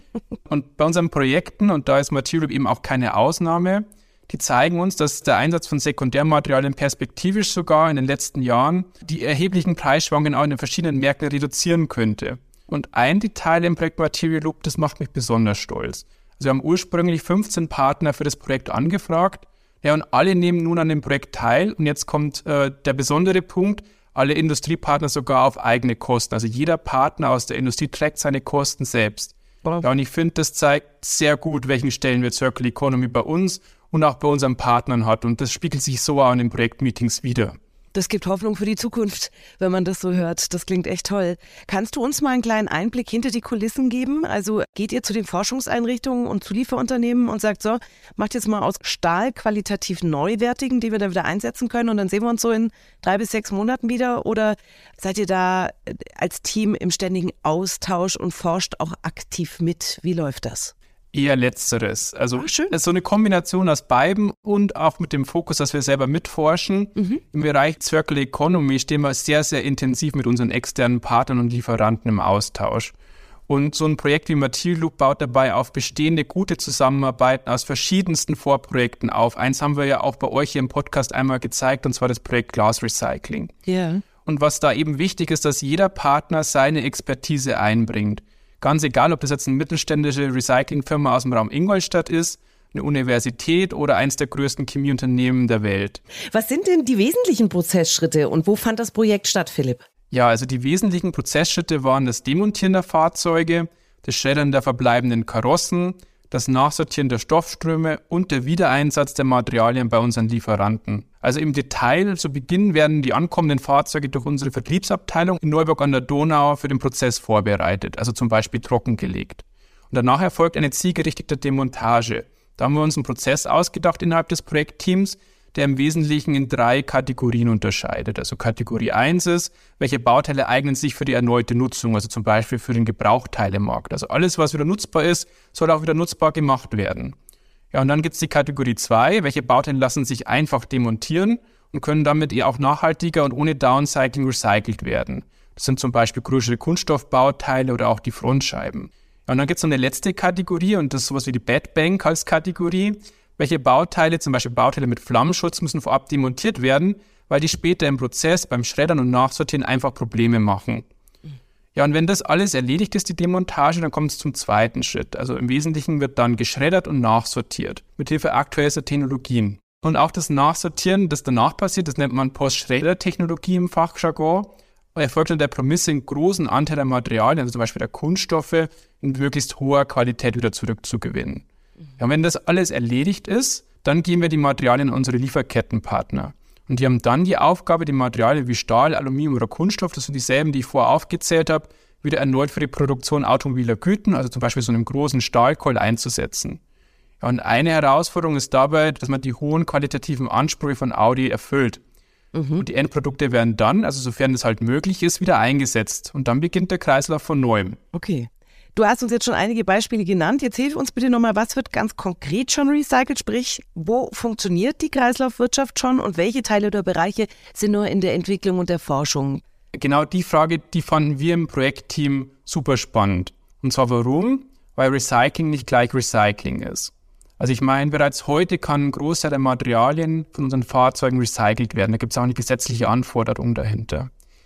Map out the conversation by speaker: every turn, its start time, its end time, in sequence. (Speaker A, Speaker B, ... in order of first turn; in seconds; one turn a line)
Speaker A: 0.5-37.6
Speaker B: 37.9-60.7
Speaker A: 61.1-72.9
Speaker B: 62.4-62.7
Speaker A: 73.5-83.5
Speaker B: 83.7-84.0
Speaker A: 84.2-96.0
Speaker B: 96.3-99.8
Speaker A: 100.1-137.2
Speaker A: 137.7-160.9
Speaker A: 161.8-181.4
Speaker A: 182.0-196.6
Speaker A: 197.2-201.8
Speaker B: 202.3-202.7
Speaker A: 202.6-207.8
Speaker B: 207.9-219.4
Speaker A: 219.7-234.1